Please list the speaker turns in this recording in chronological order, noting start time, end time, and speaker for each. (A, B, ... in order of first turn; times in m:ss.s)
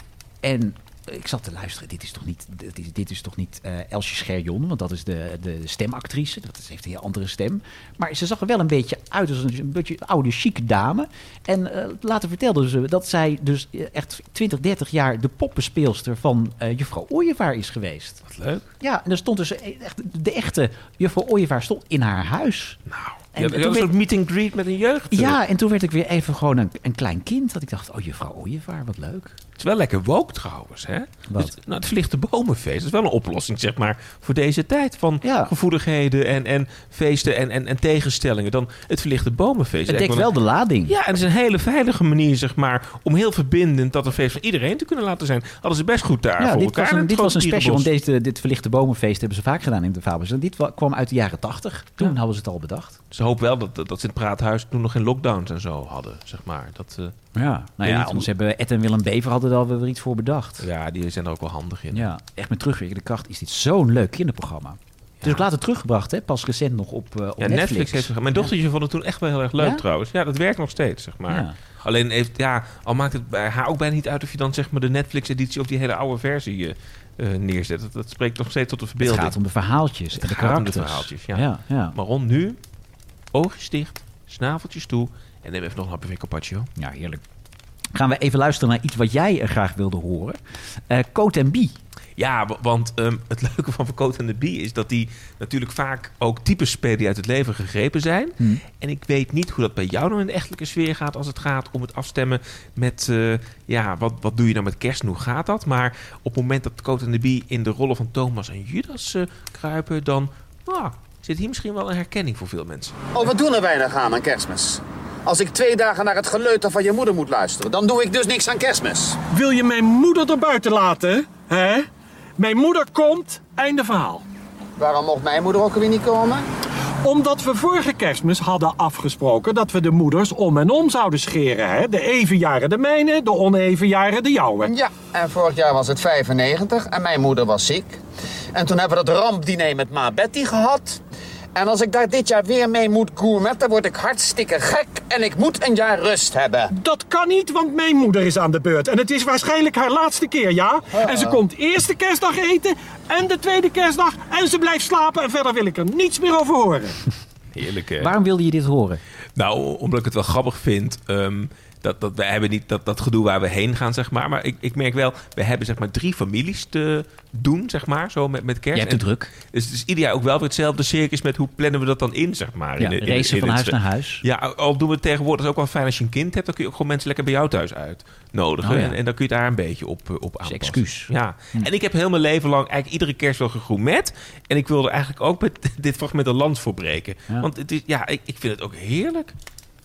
0:00.4-0:18.2 A
0:18.2-0:18.7 B
0:18.8-0:22.8 A
0:22.9-0:25.4 B
0:23.3-0:23.9 A
0:25.1-0:29.4 A
0:29.6-0:40.3 B
0:31.3-0:31.5 A
0:35.2-0:35.5 A
0:39.9-0:40.9 A
0:40.9-0:47.9 B
0:46.4-0:53.0 A
0:53.1-0:57.2 B
0:57.4-1:00.6 A
0:57.8-0:58.3 B
1:00.6-1:02.1 B
1:01.9-1:08.5 A
1:05.2-1:05.4 B
1:07.4-1:19.4 B
1:09.6-1:09.8 A
1:11.3-1:11.6 A
1:19.0-1:22.0 A
1:20.1-1:22.6 B
1:23.3-1:26.7 B
1:26.8-1:27.2 A
1:27.9-1:30.4 A
1:30.9-1:31.8 A
1:32.2-1:53.0 B
1:53.1-1:59.2 C
1:59.3-2:01.9 D
2:02.4-2:04.2 D
2:04.8-2:06.4 C
2:07.0-2:14.7 D
2:14.6-2:18.0 C
2:18.5-2:21.0 C
2:21.5-2:26.7 C
2:26.7-2:37.0 D
2:37.5-2:38.1 B
2:38.0-2:39.0 A
2:39.4-3:09.4 B
2:48.7-2:49.3 A
2:52.8-2:54.2 A
2:58.6-2:59.0 A
3:00.4-3:01.7 A